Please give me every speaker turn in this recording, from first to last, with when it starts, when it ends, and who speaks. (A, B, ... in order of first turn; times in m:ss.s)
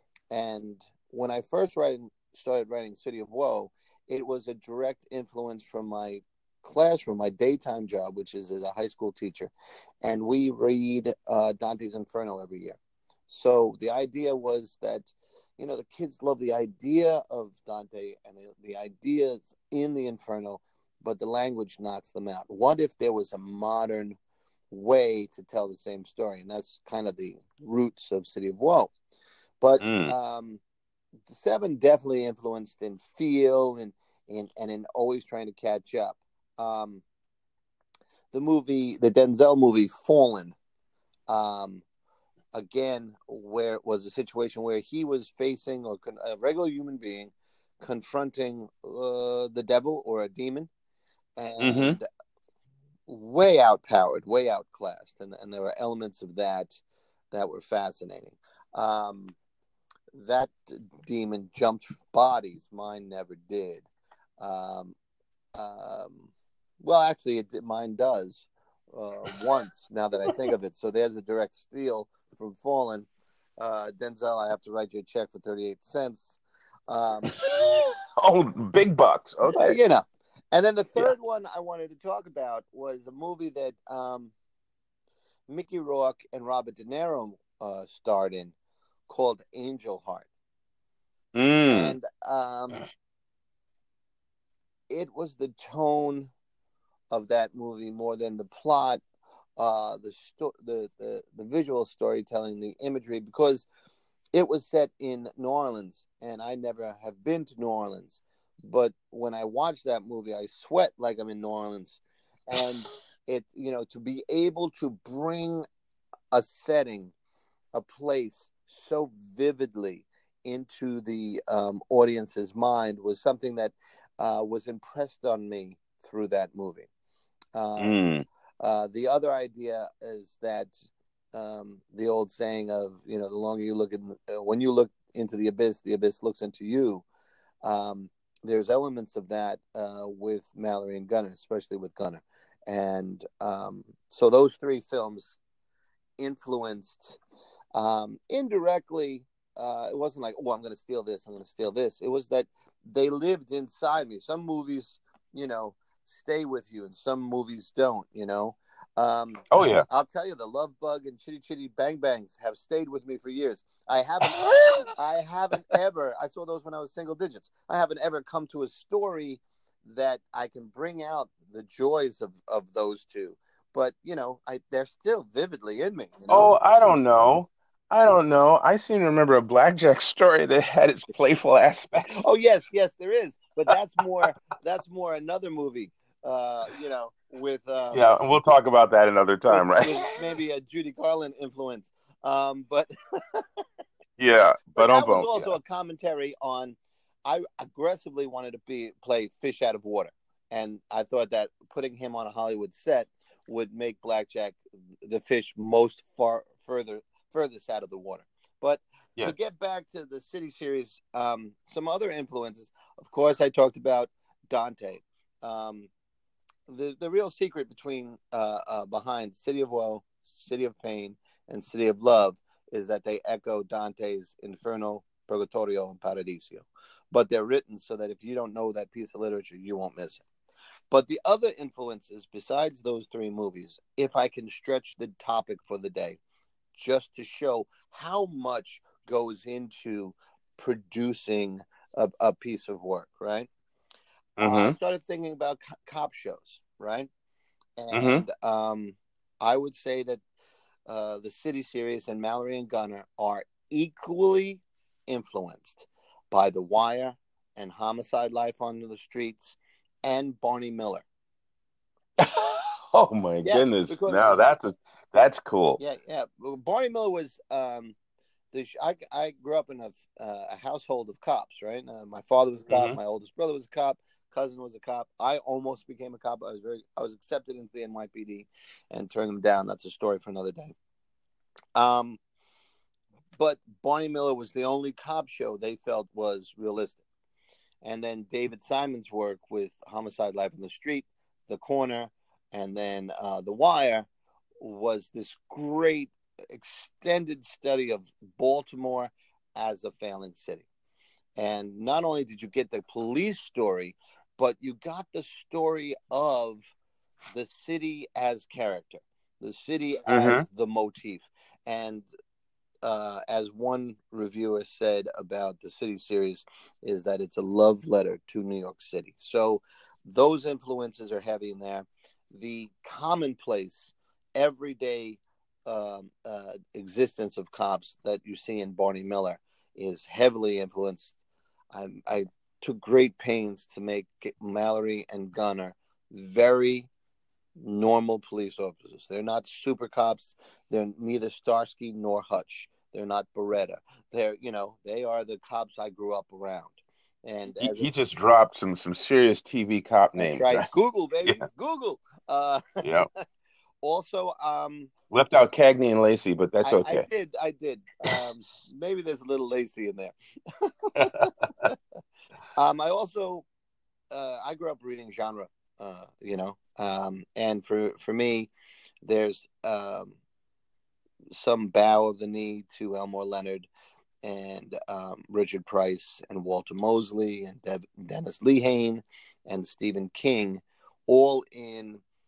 0:00.3-0:09.5 A
0:10.0-0:24.2 A
0:24.7-0:28.9 A
0:29.6-0:30.6 A
0:29.8-0:30.1 B
0:31.3-0:37.0 A
0:38.3-0:40.6 A
0:41.3-0:41.8 A
0:42.5-0:50.7 A
0:51.4-0:52.1 A
0:51.6-0:52.0 B
0:53.1-0:56.8 A
0:57.3-0:59.4 A
1:00.1-1:03.9 A
1:04.4-1:05.0 A
1:05.6-1:06.3 A
1:06.8-1:13.1 A
1:13.6-1:17.4 A
1:17.3-1:19.8 B
1:19.5-1:24.3 A
1:25.5-1:28.6 A
1:29.1-1:30.3 A
1:31.3-1:32.0 B
1:31.7-1:32.8 A
1:34.9-1:36.3 A
1:37.1-1:39.0 A
1:39.6-1:43.7 A
1:44.3-1:55.6 A
1:52.6-1:52.9 B
1:56.3-1:57.1 A
1:57.8-2:06.9 A
2:07.6-2:08.0 A
2:07.8-2:08.2 B
2:08.6-2:17.0 A
2:17.6-2:25.4 A
2:26.2-2:27.2 A
2:27.7-2:44.4 A
2:39.5-2:39.9 B
2:44.2-2:44.9 B
2:45.0-2:57.3 A
2:56.3-3:02.2 B
3:02.2-3:08.0 A
3:07.9-3:10.0 B
3:09.5-3:13.5 A
3:14.2-3:15.5 B
3:14.7-3:35.9 A
3:36.7-3:50.2 A
3:50.9-3:56.2 A
3:56.7-4:03.5 A
4:04.4-4:04.8 B
4:04.4-4:07.1 A
4:07.8-4:10.2 A
4:07.9-4:08.2 B
4:10.9-4:21.1 A
4:22.2-4:25.8 B
4:23.4-4:24.3 A
4:25.8-4:28.0 A
4:28.5-4:40.8 A
4:32.7-4:33.0 B
4:41.8-4:42.2 A
4:43.4-4:47.0 A
4:47.8-4:54.1 A
4:54.6-5:00.7 A
5:01.4-5:06.7 A
5:07.3-5:12.1 A
5:10.1-5:10.4 B
5:12.8-5:31.2 A
5:31.7-5:36.9 A
5:37.6-5:47.9 A
5:47.6-5:50.7 B
5:50.2-5:52.6 A
5:52.8-5:53.1 B
5:53.8-5:54.9 A
5:55.1-5:57.1 B
5:56.6-6:01.8 A
6:01.0-6:01.7 B
6:02.6-6:03.5 A
6:04.1-6:08.5 A
6:09.0-6:10.2 A
6:11.3-6:13.7 A
6:14.2-6:22.0 A